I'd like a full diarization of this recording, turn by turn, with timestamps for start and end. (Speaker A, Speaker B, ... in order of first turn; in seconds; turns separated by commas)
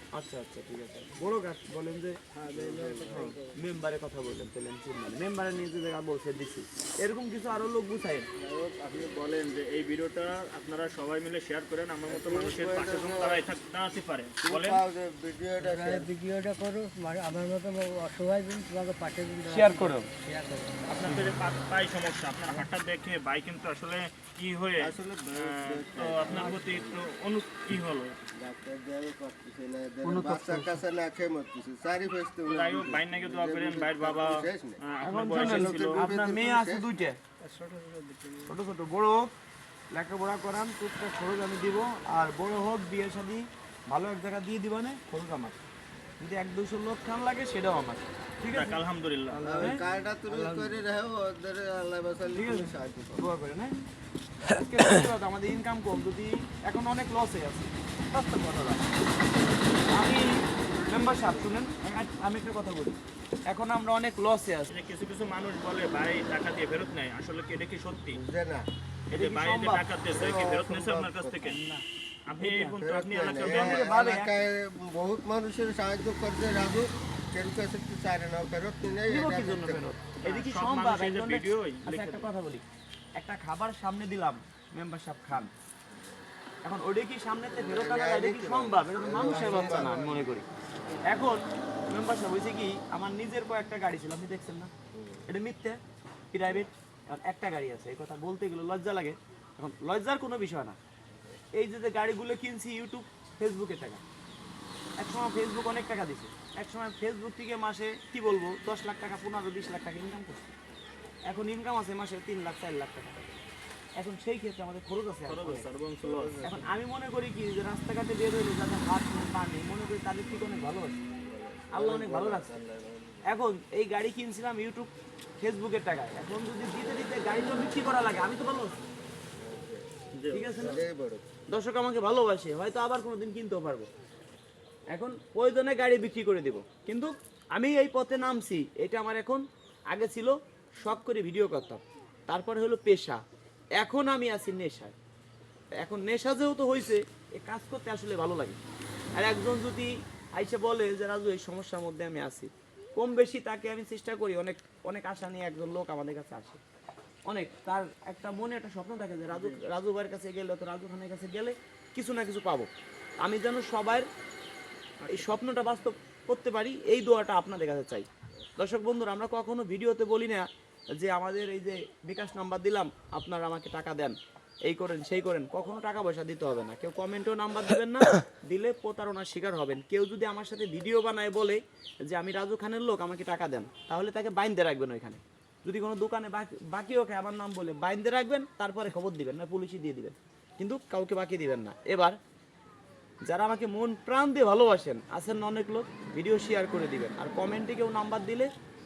Speaker A: 0.1-2.2, Speaker B: 2.3-3.5, Speaker C: 2.5-3.4, Speaker A: 3.2-8.3, Speaker C: 8.4-9.1, Speaker D: 9.0-14.8, Speaker C: 12.1-13.5, Speaker C: 14.4-16.1, Speaker B: 15.6-20.8, Speaker A: 19.5-20.1, Speaker D: 20.9-28.2, Speaker C: 24.8-27.1, Speaker C: 28.3-34.8, Speaker A: 30.0-30.8, Speaker D: 32.5-36.0, Speaker A: 35.0-37.2, Speaker C: 35.3-36.9, Speaker B: 37.4-38.6, Speaker A: 38.5-39.3, Speaker A: 39.9-45.6, Speaker A: 46.2-48.8, Speaker D: 48.5-49.4, Speaker A: 49.3-49.8, Speaker C: 49.5-53.3, Speaker B: 50.4-50.7, Speaker A: 52.3-53.8, Speaker A: 54.5-58.9, Speaker A: 59.9-60.3, Speaker A: 60.8-64.7, Speaker D: 64.7-68.2, Speaker C: 68.1-68.7, Speaker D: 69.1-71.6, Speaker A: 69.1-69.8, Speaker C: 70.1-71.6, Speaker A: 71.4-71.8, Speaker D: 72.3-73.8, Speaker A: 72.4-72.7, Speaker C: 72.7-79.9, Speaker A: 73.4-74.4, Speaker A: 79.1-82.6, Speaker D: 80.2-82.3, Speaker A: 83.2-85.5, Speaker A: 86.6-90.5, Speaker C: 87.5-90.3, Speaker A: 91.0-94.7, Speaker C: 94.9-95.2, Speaker A: 95.3-95.8, Speaker A: 96.3-100.8, Speaker A: 101.5-104.0, Speaker A: 105.0-110.5, Speaker A: 111.2-113.4, Speaker A: 114.0-115.7, Speaker D: 115.3-116.4, Speaker C: 116.0-116.7, Speaker A: 116.4-121.0, Speaker C: 121.2-123.3, Speaker A: 121.7-122.6, Speaker A: 123.2-128.8, Speaker C: 129.4-129.8, Speaker D: 130.1-130.6, Speaker A: 130.3-130.8, Speaker C: 130.5-131.3, Speaker A: 131.5-133.9, Speaker A: 134.9-143.2, Speaker A: 143.8-144.9, Speaker A: 145.8-148.6, Speaker A: 149.1-156.6, Speaker A: 157.3-162.7, Speaker A: 163.2-164.1, Speaker D: 165.0-165.3, Speaker A: 165.1-192.2, Speaker A: 193.2-198.5